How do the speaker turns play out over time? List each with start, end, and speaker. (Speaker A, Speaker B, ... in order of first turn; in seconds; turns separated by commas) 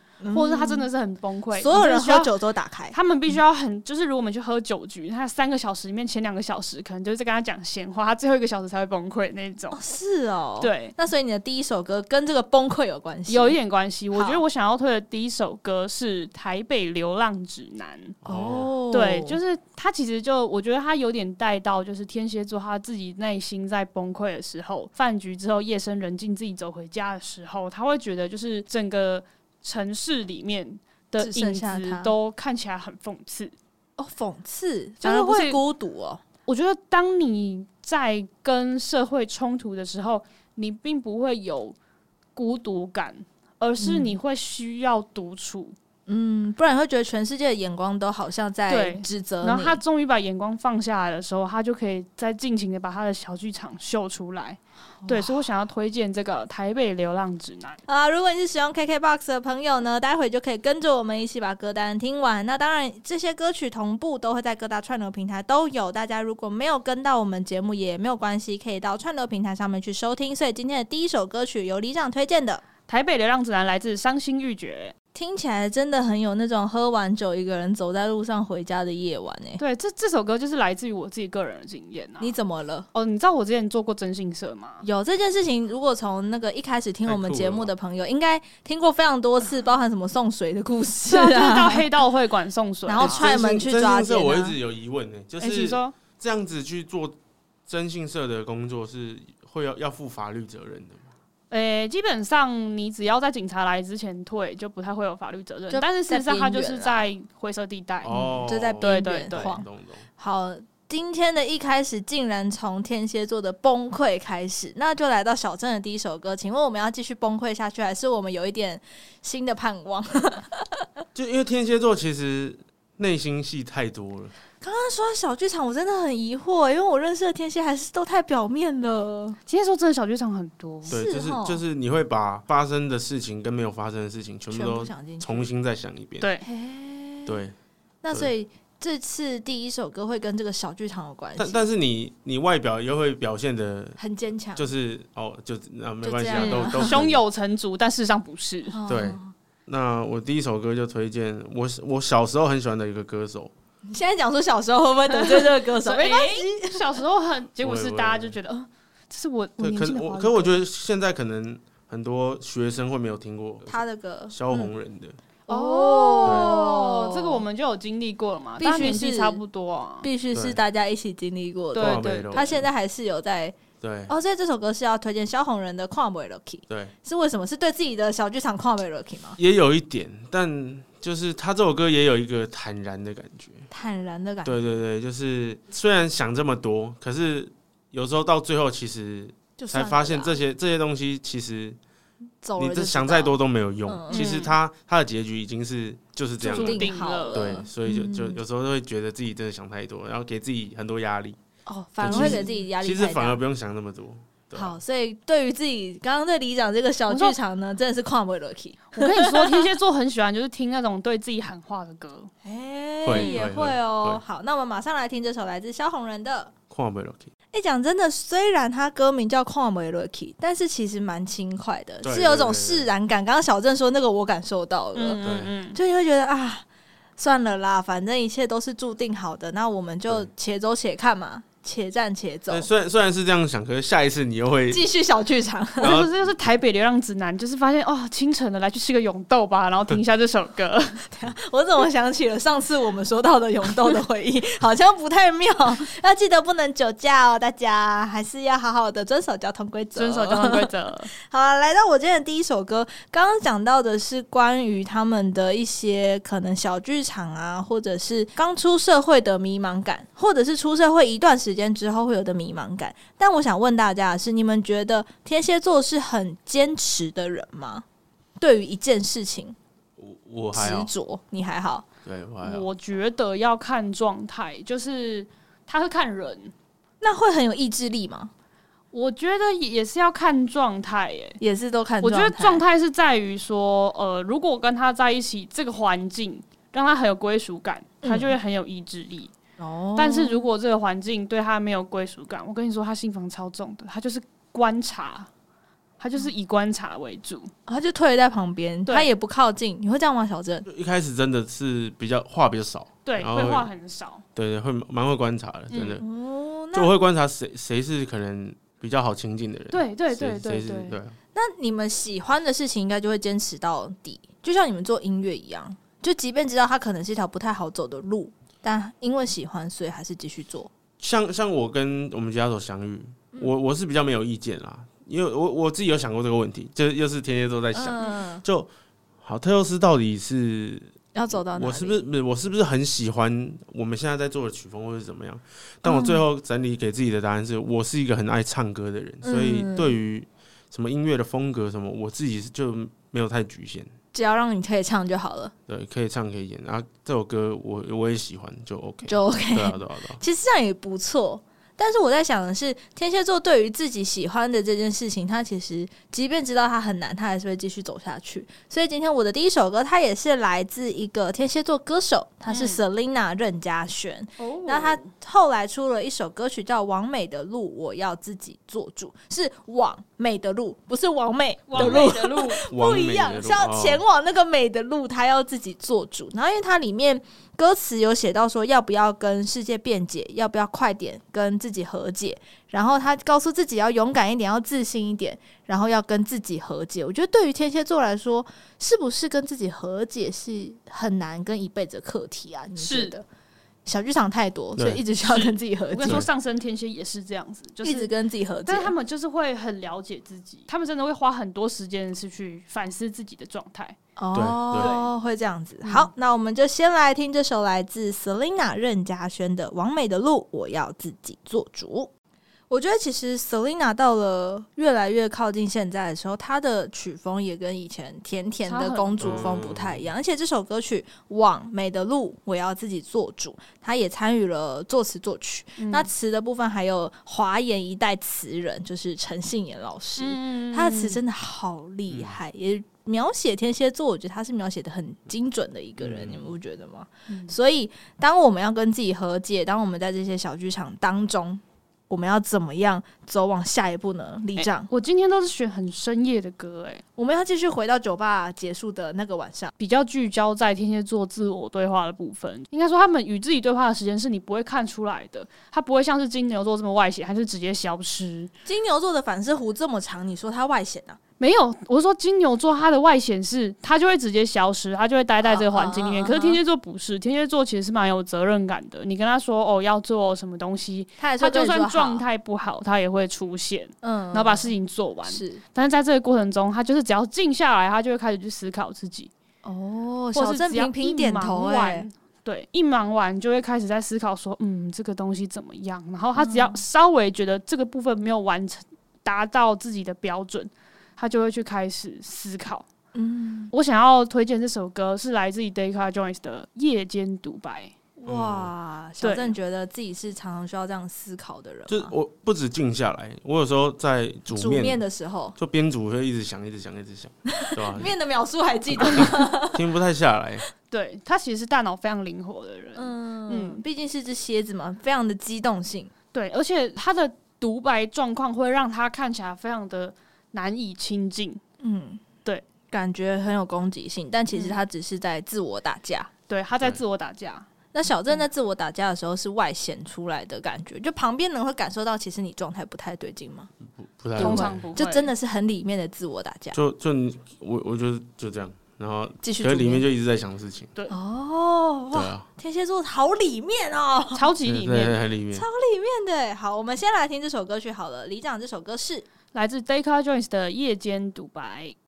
Speaker A: 0.2-0.9, Speaker B: 0.3-2.3, Speaker A: 1.5-3.4, Speaker B: 2.9-9.8, Speaker A: 9.7-13.6, Speaker B: 10.6-10.9, Speaker B: 13.3-18.2, Speaker A: 14.1-14.4, Speaker C: 18.2-18.7, Speaker A: 18.2-19.4, Speaker B: 18.9-33.5, Speaker A: 31.2-32.1, Speaker A: 34.0-36.2, Speaker B: 35.0-35.6, Speaker B: 36.5-41.8, Speaker B: 42.3-45.7, Speaker A: 43.8-44.2, Speaker A: 46.1-49.8, Speaker B: 48.7-57.8, Speaker A: 55.0-55.5, Speaker A: 57.9-72.6, Speaker B: 72.8-74.9, Speaker A: 75.1-79.6, Speaker B: 79.6-82.3, Speaker A: 82.2-82.9, Speaker B: 82.9-84.8, Speaker A: 84.8-91.9, Speaker C: 87.0-87.7, Speaker B: 91.1-93.3, Speaker A: 92.8-94.5, Speaker C: 93.0-97.2, Speaker B: 95.4-96.0, Speaker C: 97.7-101.1, Speaker B: 101.5-108.2, Speaker A: 105.7-107.1, Speaker C: 108.0-110.0, Speaker A: 108.1-109.7, Speaker B: 108.8-109.5, Speaker A: 110.2-121.0, Speaker C: 121.1-124.3, Speaker A: 124.6-129.4, Speaker B: 129.5-131.0, Speaker A: 130.9-131.6, Speaker C: 130.9-136.3, Speaker A: 134.5-135.5, Speaker B: 136.2-136.4, Speaker A: 136.4-137.4, Speaker C: 137.2-137.5, Speaker A: 138.0-141.7, Speaker C: 141.4-144.0, Speaker A: 144.0-144.7, Speaker C: 144.6-147.2, Speaker A: 146.0-147.0, Speaker B: 146.3-148.8, Speaker A: 148.7-149.3, Speaker C: 148.9-153.5, Speaker A: 153.8-156.8, Speaker B: 155.1-160.6, Speaker C: 157.6-158.3, Speaker C: 159.6-165.2, Speaker A: 163.7-164.7, Speaker A: 165.5-167.4, Speaker B: 165.5-170.1, Speaker C: 166.2-166.5, Speaker A: 168.6-169.4, Speaker A: 170.0-179.4, Speaker C: 170.3-170.6, Speaker B: 171.7-172.5, Speaker C: 171.7-172.7, Speaker C: 173.8-174.1, Speaker C: 176.7-176.9, Speaker C: 179.4-183.7, Speaker A: 183.7-184.6, Speaker C: 184.4-191.8, Speaker A: 189.6-190.4, Speaker A: 192.4-194.3, Speaker C: 192.6-201.4, Speaker B: 194.1-194.5, Speaker A: 196.4-198.4, Speaker B: 196.5-197.6, Speaker A: 201.7-203.4, Speaker C: 202.0-204.8, Speaker B: 202.1-202.4, Speaker A: 204.5-209.7, Speaker B: 207.1-207.3, Speaker B: 208.9-212.3, Speaker A: 212.4-216.5, Speaker C: 213.0-214.2, Speaker B: 213.1-213.4, Speaker C: 216.7-217.3, Speaker A: 217.5-225.2, Speaker C: 222.0-222.9, Speaker B: 224.9-225.8, Speaker C: 225.2-225.5, Speaker A: 225.7-226.7, Speaker A: 227.2-232.7, Speaker C: 232.5-234.8, Speaker A: 234.7-236.0, Speaker C: 235.8-236.3, Speaker B: 235.8-241.0, Speaker A: 241.1-267.8, Speaker B: 249.9-251.1, Speaker A: 268.4-269.6, Speaker C: 270.0-270.9, Speaker A: 270.5-271.9, Speaker C: 272.0-272.7, Speaker B: 272.4-276.5, Speaker A: 277.0-278.3, Speaker B: 278.9-281.4, Speaker A: 281.4-282.6, Speaker B: 282.0-289.3, Speaker A: 288.0-288.3, Speaker A: 289.6-290.4, Speaker B: 289.9-295.3, Speaker B: 296.0-297.5, Speaker A: 297.7-300.6, Speaker C: 300.6-303.7, Speaker B: 303.0-304.2, Speaker C: 304.4-306.0, Speaker B: 305.7-306.0, Speaker A: 306.0-306.9, Speaker C: 306.7-311.2, Speaker B: 309.7-311.0, Speaker A: 311.3-320.7, Speaker C: 321.0-328.7, Speaker A: 327.7-328.4, Speaker C: 329.2-343.9, Speaker A: 331.1-332.0, Speaker A: 335.8-336.2, Speaker A: 339.2-340.0, Speaker A: 344.1-345.5, Speaker C: 345.7-350.2, Speaker A: 349.1-393.2, Speaker B: 362.5-362.8, Speaker B: 364.4-365.1, Speaker B: 371.7-372.6, Speaker C: 371.8-372.2, Speaker C: 372.7-374.0, Speaker B: 392.8-393.1, Speaker A: 393.8-396.2, Speaker C: 394.8-395.0, Speaker B: 395.2-398.1, Speaker A: 397.8-398.9, Speaker B: 398.6-404.0, Speaker A: 404.2-412.1, Speaker C: 404.3-404.9, Speaker B: 404.7-405.1, Speaker B: 405.8-406.1, Speaker A: 412.7-444.9, Speaker B: 418.6-419.4, Speaker C: 419.2-420.0, Speaker B: 425.8-426.1, Speaker B: 430.2-431.2, Speaker C: 432.1-432.4, Speaker C: 436.0-436.5, Speaker B: 437.3-437.6, Speaker B: 444.6-447.0, Speaker A: 447.2-449.7, Speaker B: 449.8-458.5, Speaker A: 458.6-461.2, Speaker B: 461.4-479.3, Speaker A: 465.4-466.6, Speaker A: 471.2-472.2, Speaker A: 474.0-474.7, Speaker A: 475.3-475.6, Speaker A: 479.6-482.1, Speaker B: 480.3-492.9, Speaker A: 486.4-486.8, Speaker A: 493.1-493.7, Speaker B: 493.7-497.9, Speaker A: 498.2-502.1, Speaker C: 498.3-498.7, Speaker B: 499.2-499.5, Speaker C: 501.9-505.0, Speaker A: 504.5-505.6, Speaker C: 505.6-508.1, Speaker A: 507.6-509.8, Speaker C: 508.9-510.7, Speaker B: 510.9-513.8, Speaker A: 512.9-516.1, Speaker B: 516.3-521.6, Speaker A: 521.8-522.2, Speaker A: 522.9-526.3, Speaker B: 524.5-524.8, Speaker B: 526.5-527.7, Speaker A: 527.9-533.7, Speaker C: 533.9-534.9, Speaker A: 534.4-536.8, Speaker B: 534.4-535.3, Speaker C: 536.7-540.9, Speaker A: 539.4-540.0, Speaker A: 541.1-544.5, Speaker C: 542.1-542.5, Speaker B: 544.3-545.2, Speaker C: 544.6-545.6, Speaker A: 545.5-549.2, Speaker B: 549.5-551.9